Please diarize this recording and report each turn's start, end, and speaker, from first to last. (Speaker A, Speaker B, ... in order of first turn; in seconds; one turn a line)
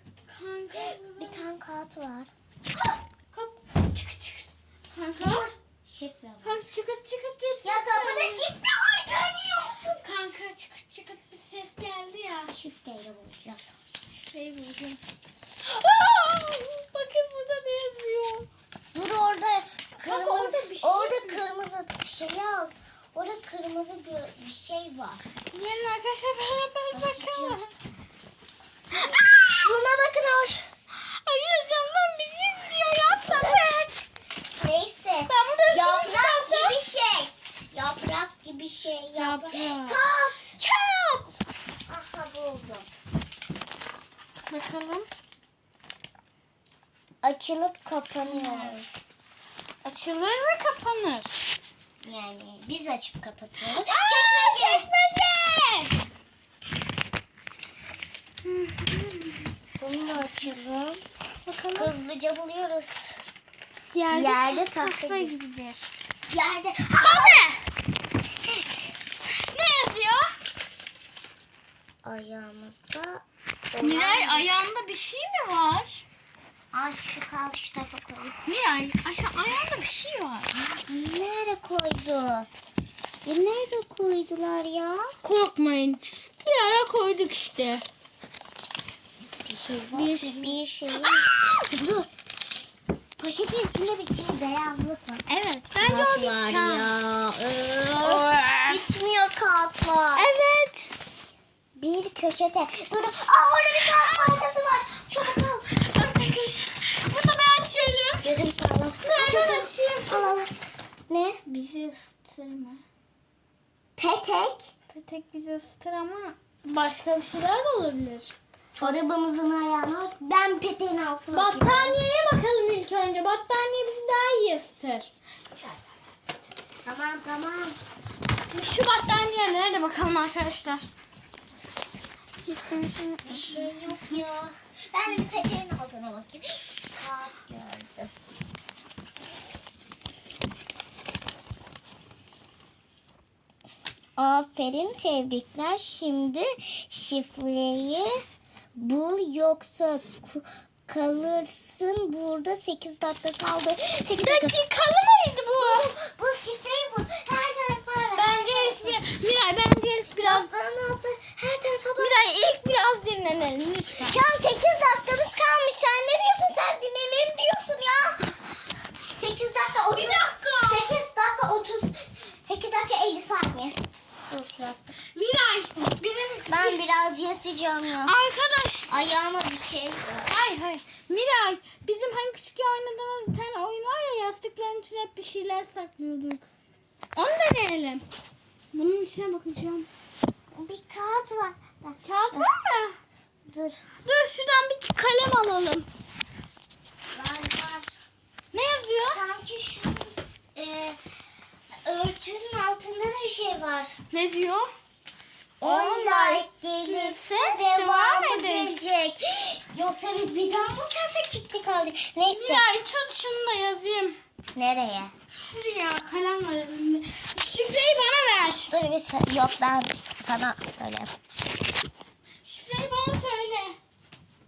Speaker A: 0.3-1.4
Speaker B: 0.8-2.3
Speaker B: 3.3-4.5
Speaker A: 4.9-5.5
Speaker B: 5.2-6.6
Speaker A: 6.4-8.5
Speaker B: 7.6-10.0
Speaker A: 10.0-12.5
Speaker B: 12.5-13.8
Speaker A: 14.2-15.1
Speaker A: 15.6-18.5
Speaker B: 18.9-25.2
Speaker A: 20.0-21.4
Speaker A: 25.5-27.7
Speaker B: 26.9-27.6
Speaker A: 28.9-29.6
Speaker B: 29.0-30.7
Speaker A: 30.9-34.0
Speaker B: 33.3-33.7
Speaker B: 34.6-40.6
Speaker A: 35.3-36.8
Speaker A: 39.1-40.0
Speaker A: 40.6-41.4
Speaker B: 41.9-42.9
Speaker A: 44.5-45.1
Speaker B: 47.2-48.9
Speaker A: 48.3-48.8
Speaker A: 49.8-51.4
Speaker B: 52.0-54.9
Speaker A: 53.9-56.0
Speaker A: 58.4-59.5
Speaker B: 59.8-61.0
Speaker A: 61.5-61.9
Speaker B: 61.8-63.1
Speaker A: 63.9-65.9
Speaker B: 64.1-65.3
Speaker B: 66.3-67.5
Speaker A: 67.0-67.6
Speaker A: 69.4-70.4
Speaker B: 72.0-74.5
Speaker A: 73.8-76.0
Speaker B: 76.7-78.4
Speaker A: 78.4-80.5
Speaker B: 80.6-82.5
Speaker B: 83.2-85.1
Speaker A: 85.2-87.8
Speaker B: 89.4-92.1
Speaker A: 89.9-91.5
Speaker B: 93.2-95.2
Speaker A: 95.3-96.9
Speaker B: 95.8-100.3
Speaker A: 98.0-98.9
Speaker A: 100.2-100.9
Speaker B: 101.8-105.7
Speaker A: 103.8-104.4
Speaker A: 105.7-108.3
Speaker B: 108.2-111.4
Speaker A: 109.0-110.3
Speaker A: 111.5-112.8
Speaker B: 114.0-114.7
Speaker A: 114.9-118.3
Speaker B: 118.8-122.0
Speaker A: 121.3-125.1
Speaker B: 126.8-127.8
Speaker A: 128.5-130.9
Speaker A: 132.6-133.5
Speaker B: 133.2-138.1
Speaker B: 144.2-148.2
Speaker B: 148.8-154.6
Speaker A: 154.2-155.9
Speaker B: 155.6-159.0
Speaker A: 158.2-160.5
Speaker B: 160.1-162.2
Speaker A: 162.0-164.2
Speaker B: 164.0-168.4
Speaker B: 169.1-173.8
Speaker A: 169.9-170.9
Speaker B: 174.3-175.0
Speaker A: 175.1-176.8
Speaker B: 176.5-178.2
Speaker A: 178.0-179.0
Speaker B: 178.9-180.4
Speaker A: 180.3-186.5
Speaker A: 187.2-188.1
Speaker A: 188.7-189.9
Speaker B: 190.5-192.5
Speaker A: 192.0-192.9
Speaker B: 193.5-193.8
Speaker A: 194.1-195.9
Speaker B: 197.1-198.0
Speaker A: 198.5-199.2
Speaker B: 199.1-201.0
Speaker B: 201.8-204.0
Speaker A: 204.1-204.7
Speaker B: 205.6-212.7
Speaker A: 205.6-208.8
Speaker A: 212.3-214.2
Speaker B: 214.6-215.1
Speaker A: 215.3-218.7
Speaker B: 218.7-221.1
Speaker A: 222.4-223.8